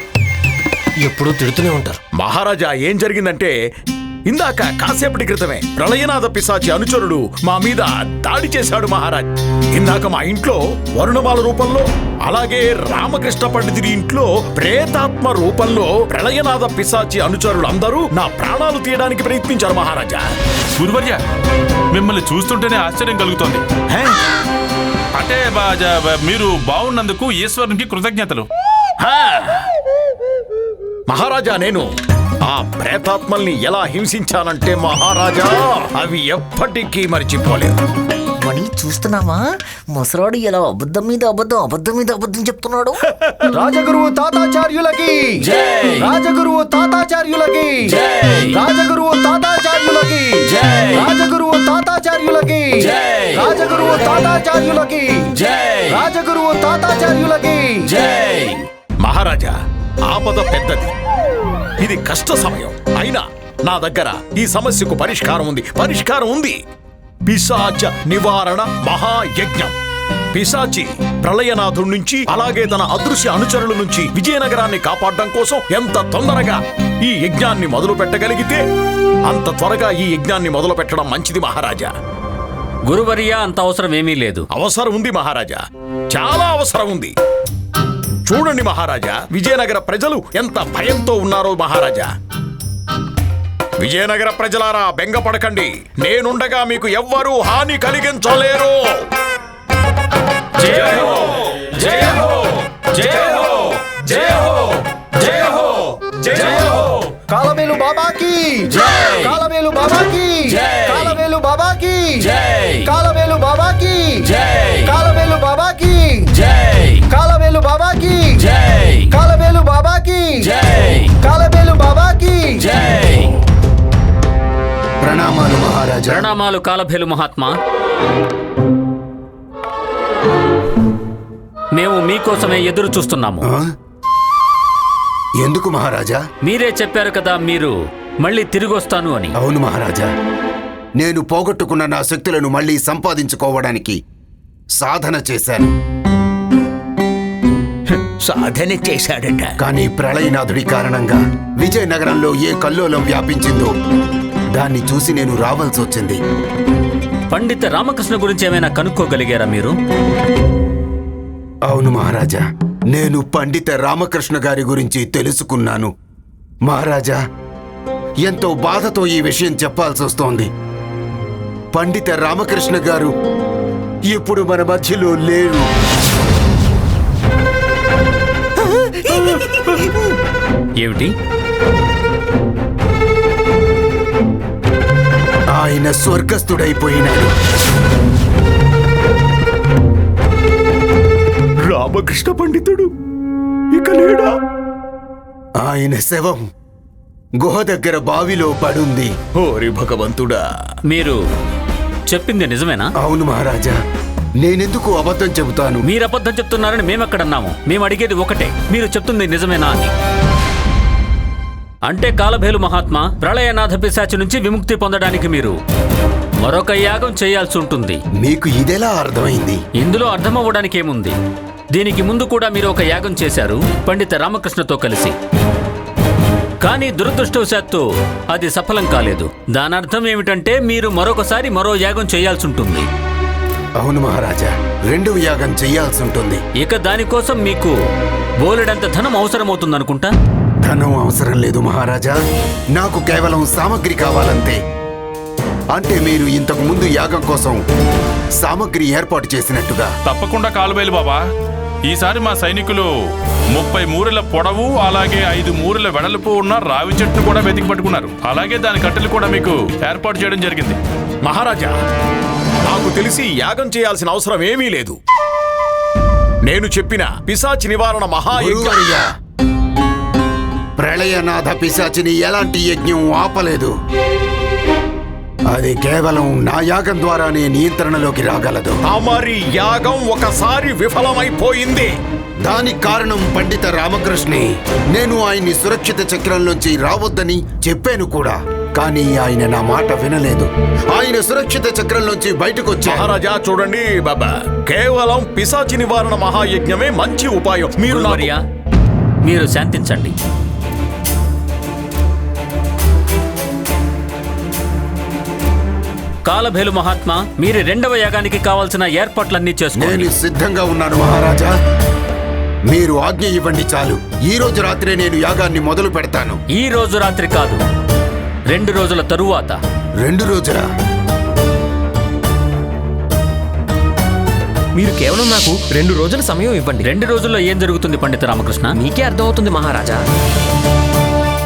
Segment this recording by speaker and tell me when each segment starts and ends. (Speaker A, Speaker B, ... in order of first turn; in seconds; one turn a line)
Speaker A: 1.1-1.9
Speaker B: 2.2-3.5
Speaker B: 4.3-20.2
Speaker C: 20.8-21.2
Speaker C: 21.9-23.6
Speaker C: 25.2-28.5
Speaker B: 29.0-29.6
Speaker B: 31.1-31.9
Speaker B: 32.5-37.8
Speaker D: 38.4-43.0
Speaker B: 43.1-43.5
Speaker E: 43.6-45.4
Speaker F: 45.4-46.1
Speaker E: 46.0-48.0
Speaker F: 47.9-48.6
Speaker E: 48.5-50.4
Speaker F: 50.5-51.1
Speaker E: 51.0-55.1
Speaker F: 52.8-53.5
Speaker F: 55.4-56.1
Speaker E: 55.9-57.8
Speaker F: 57.9-58.6
Speaker B: 59.0-59.5
Speaker B: 60.1-60.9
Speaker B: 61.8-66.6
Speaker B: 67.3-69.8
Speaker B: 70.3-78.6
Speaker B: 79.3-81.9
Speaker F: 82.9-84.5
Speaker B: 84.5-87.1
Speaker B: 88.3-92.1
Speaker B: 93.8-98.8
Speaker E: 106.3-108.7
Speaker F: 108.8-109.4
Speaker E: 109.3-112.3
Speaker F: 110.5-111.2
Speaker F: 112.2-112.9
Speaker E: 112.8-114.3
Speaker F: 114.3-114.9
Speaker E: 114.9-116.2
Speaker F: 116.3-117.0
Speaker E: 117.1-118.4
Speaker F: 118.4-119.1
Speaker E: 119.1-120.5
Speaker F: 120.4-121.1
Speaker E: 121.2-122.6
Speaker F: 122.6-123.3
Speaker G: 125.0-126.3
Speaker F: 126.1-127.5
Speaker F: 131.8-133.4
Speaker G: 135.4-136.2
Speaker F: 136.4-139.3
Speaker G: 139.4-140.1
Speaker G: 141.0-144.0
Speaker G: 144.8-145.7
Speaker B: 147.9-149.6
Speaker G: 149.6-153.7
Speaker G: 154.6-156.2
Speaker F: 157.3-159.7
Speaker G: 161.7-165.9
Speaker G: 166.7-167.2
Speaker G: 168.3-170.5
Speaker G: 171.7-173.1
Speaker G: 174.1-175.7
Speaker G: 179.1-179.7
Speaker F: 180.8-181.1
Speaker G: 185.6-187.3
Speaker B: 191.7-192.9
Speaker B: 193.7-194.3
Speaker G: 195.6-196.4
Speaker G: 197.4-199.1
Speaker B: 199.4-200.4
Speaker F: 200.9-201.2
Speaker F: 202.1-202.9
Speaker G: 203.0-203.8
Speaker G: 204.4-205.8
Speaker F: 205.9-209.9
Speaker F: 211.9-215.6
Speaker F: 216.4-218.0
Speaker G: 218.2-219.6
Speaker F: 219.8-221.2
Speaker F: 221.7-225.2
Speaker F: 226.6-232.9
Speaker G: 233.8-236.4
Speaker F: 236.6-237.8
Speaker F: 238.4-240.1
Speaker G: 240.6-242.2
Speaker G: 242.8-244.6
Speaker G: 245.7-247.6
Speaker G: 248.4-249.9
Speaker C: 250.1-251.2
Speaker C: 251.9-252.9
Speaker C: 253.6-260.8
Speaker B: 261.2-261.8
Speaker B: 262.7-265.0
Speaker B: 266.5-268.9
Speaker G: 268.3-269.0
Speaker G: 270.8-273.7
Speaker G: 275.5-278.8
Speaker B: 278.9-281.9
Speaker G: 282.4-293.1
Speaker B: 292.8-298.3
Speaker F: 297.8-298.4
Speaker F: 299.2-300.1
Speaker F: 306.3-310.1
Speaker G: 309.8-311.5
Speaker G: 312.7-316.4
Speaker F: 316.6-317.6
Speaker F: 318.5-319.6
Speaker G: 320.0-320.6
Speaker A: 324.8-326.9
Speaker F: 326.8-328.7
Speaker A: 328.8-330.0